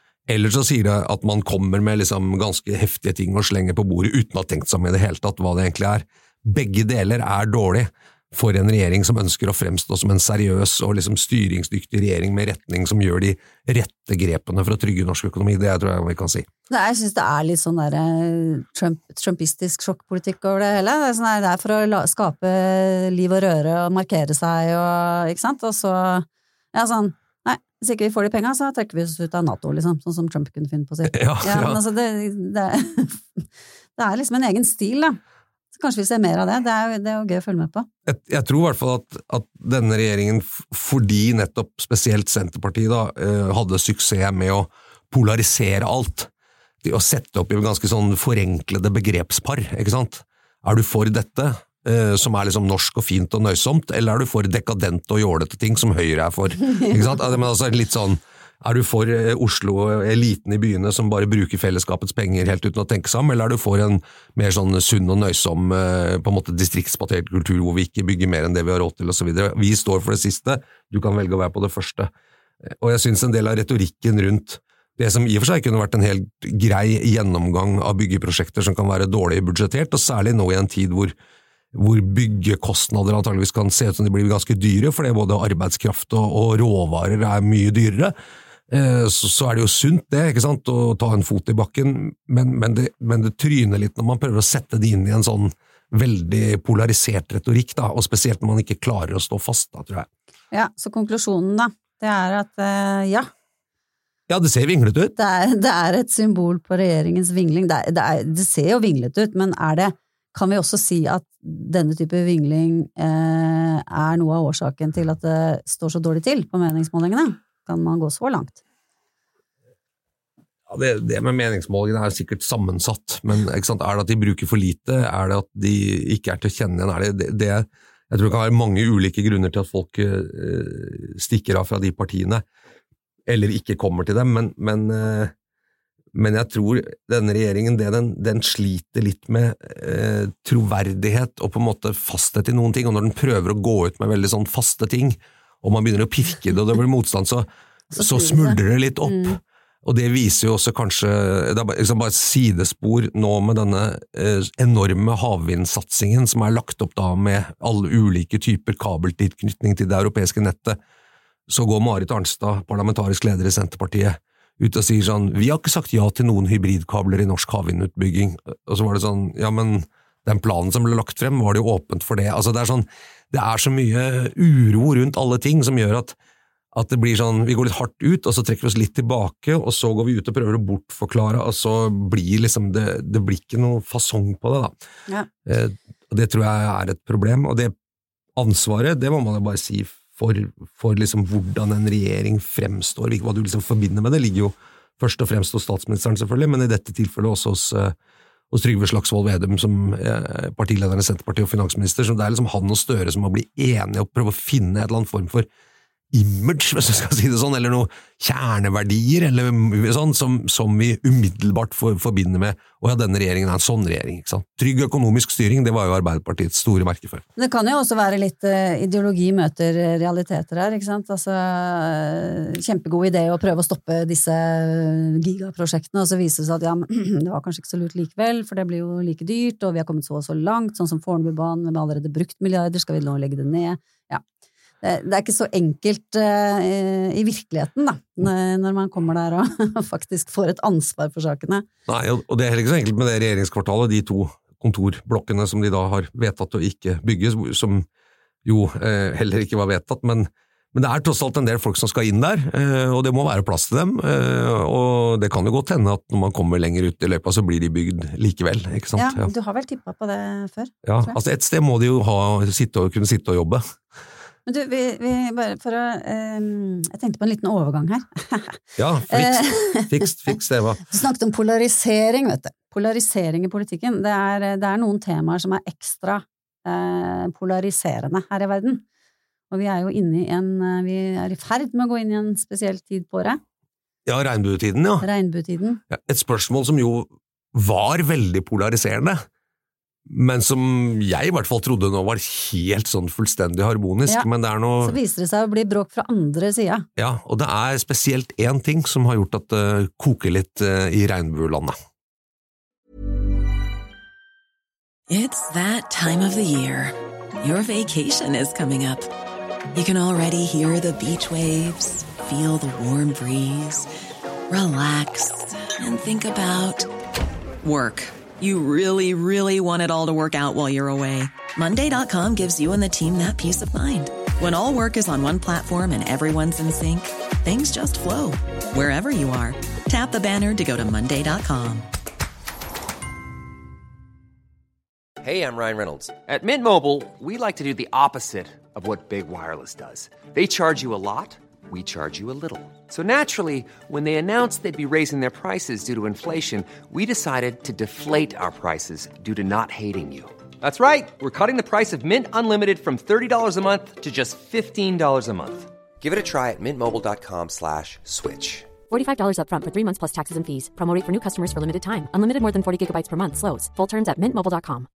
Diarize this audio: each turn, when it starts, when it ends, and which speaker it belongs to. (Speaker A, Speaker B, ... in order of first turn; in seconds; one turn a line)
Speaker A: 0.3-16.4
Speaker B: 16.7-35.2
Speaker A: 31.1-31.8
Speaker B: 35.7-37.9
Speaker A: 38.1-46.3
Speaker A: 46.8-72.1
Speaker B: 56.8-57.3
Speaker A: 72.7-81.1
Speaker A: 81.7-88.1
Speaker A: 88.7-100.1
Speaker B: 100.5-103.3
Speaker A: 104.3-105.1
Speaker B: 105.2-118.6
Speaker A: 120.7-132.4
Speaker A: 133.3-135.3
Speaker A: 136.1-160.8
Speaker B: 147.9-149.4
Speaker A: 161.5-176.2
Speaker A: 176.7-184.7
Speaker A: 185.4-187.7
Speaker A: 188.3-197.9
Speaker A: 198.5-205.5
Speaker A: 206.1-217.2
Speaker B: 217.4-234.2
Speaker B: 234.8-241.7
Speaker A: 241.9-247.8
Speaker A: 248.4-259.3
Speaker B: 258.9-261.2
Speaker A: 260.8-263.6
Speaker B: 264.4-270.4
Speaker A: 268.8-270.8
Speaker B: 270.9-278.8
Speaker B: 279.5-283.4
Speaker A: 284.1-285.1
Speaker B: 285.0-285.8
Speaker A: 285.9-289.2
Speaker A: 290.1-294.9
Speaker B: 294.8-296.9
Speaker A: 297.0-301.8
Speaker C: 305.1-309.1
Speaker C: 309.7-313.9
Speaker C: 314.5-316.9
Speaker C: 317.6-331.9
Speaker D: 335.2-358.7
Speaker E: 358.9-364.9